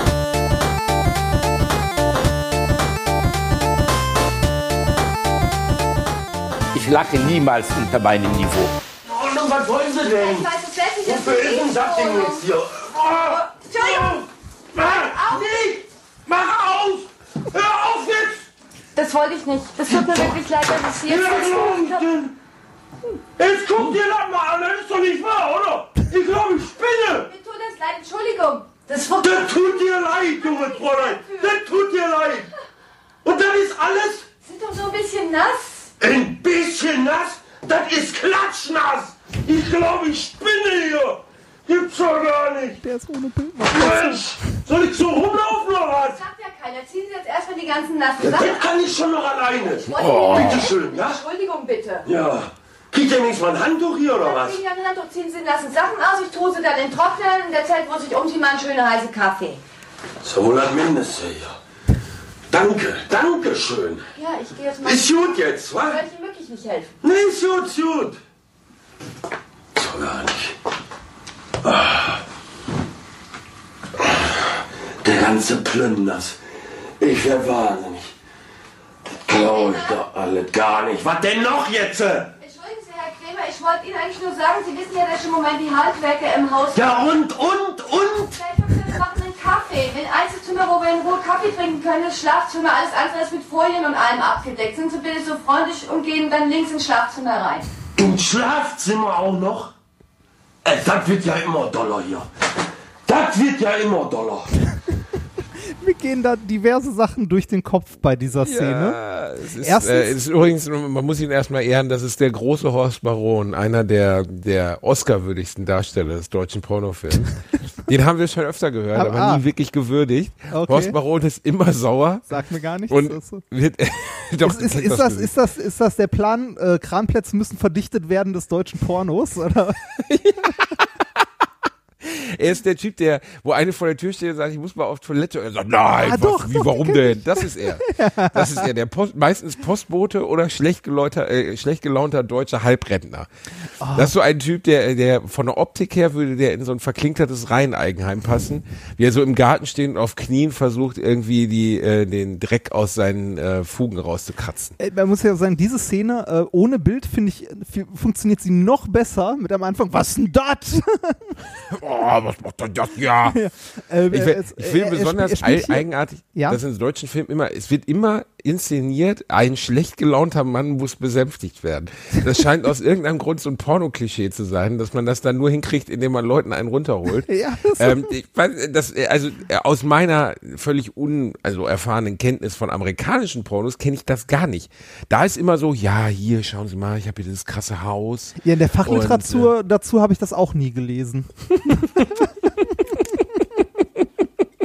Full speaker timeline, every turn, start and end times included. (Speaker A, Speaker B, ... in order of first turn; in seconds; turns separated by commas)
Speaker A: 6.7-8.7, Speaker B: 9.1-10.5, Speaker C: 10.1-12.5, Speaker B: 11.0-18.5, Speaker C: 13.2-15.7, Speaker C: 18.9-22.1, Speaker B: 19.9-20.3, Speaker B: 21.0-22.3, Speaker B: 23.4-27.3, Speaker C: 27.2-31.6, Speaker B: 29.2-32.5, Speaker B: 33.2-34.3, Speaker C: 34.4-35.9, Speaker B: 36.0-42.8, Speaker D: 42.8-44.2, Speaker B: 43.7-46.2, Speaker C: 46.1-48.7, Speaker B: 48.2-51.2, Speaker C: 49.9-52.0, Speaker E: 50.0-50.5, Speaker B: 52.0-54.6, Speaker C: 54.2-59.6, Speaker B: 60.2-61.5, Speaker B: 62.5-64.1, Speaker C: 64.1-66.9, Speaker B: 64.8-66.0, Speaker B: 67.0-68.2, Speaker B: 69.7-70.5, Speaker B: 71.6-72.2, Speaker B: 74.0-76.4, Speaker B: 77.0-78.1, Speaker B: 79.1-82.3, Speaker C: 79.3-80.0, Speaker C: 82.4-87.2, Speaker B: 86.7-88.4, Speaker C: 88.3-97.7, Speaker B: 98.0-99.7, Speaker B: 100.6-102.3, Speaker B: 103.0-104.7, Speaker D: 105.8-109.0, Speaker E: 108.4-122.3, Speaker D: 109.6-110.2, Speaker D: 118.9-119.4, Speaker D: 120.5-121.0, Speaker D: 122.3-123.4, Speaker E: 122.9-125.3, Speaker D: 124.4-129.8, Speaker E: 130.0-131.2, Speaker E: 132.0-143.3, Speaker D: 136.0-138.7, Speaker D: 143.8-144.1, Speaker E: 143.9-154.8, Speaker D: 154.8-161.4, Speaker E: 161.7-163.4, Speaker D: 163.2-166.6, Speaker E: 164.1-189.5, Speaker D: 177.2-178.1, Speaker D: 188.4-192.1